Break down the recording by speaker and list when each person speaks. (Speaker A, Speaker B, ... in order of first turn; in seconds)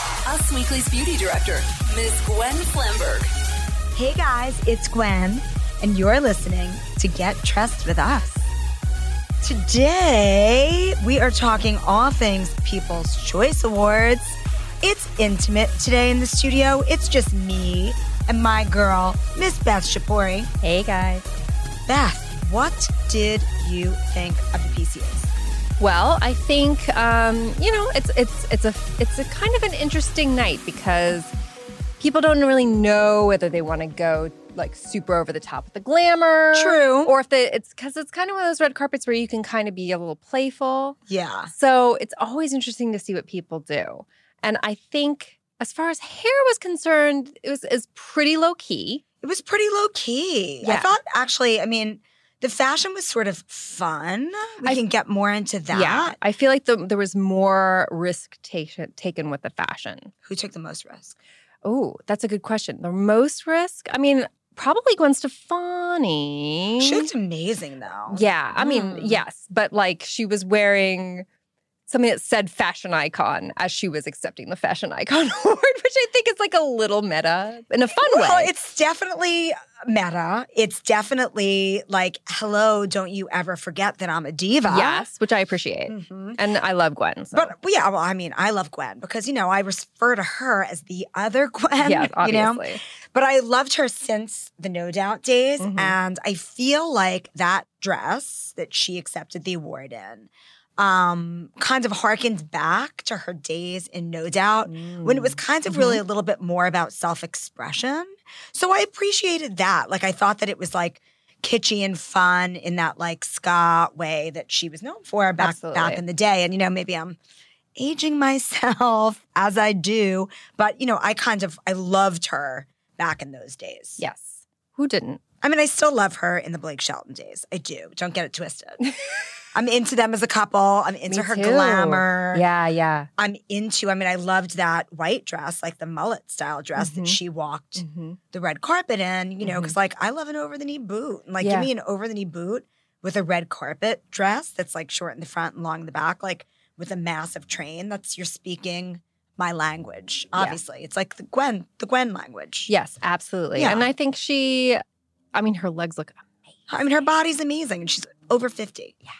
Speaker A: 0.2-3.3
Speaker B: 3.9-8.4, 9.4-20.5, 21.9-25.3, 36.5-37.1, 41.1-41.5, 49.2-56.2, 60.2-61.1, 66.8-69.2, 77.9-85.1, 85.9-86.4, 87.3-117.2, 117.8-124.0, 125.4-128.8, 129.5-132.4, 133.2-152.7, 153.5-153.9, 156.7-158.9
Speaker C: 20.6-21.2, 25.8-31.3, 32.0-41.0, 41.5-49.0, 50.6-50.9, 55.7-60.1, 61.6-67.1, 68.1-71.2, 71.9-78.5, 84.7-87.5, 91.8-92.8, 95.6-96.0, 104.7-106.0, 115.4-116.0, 124.0-125.2, 131.1-133.1, 136.8-137.2, 137.8-138.2, 139.4-139.8, 141.4-141.7, 152.7-154.8, 155.3-156.5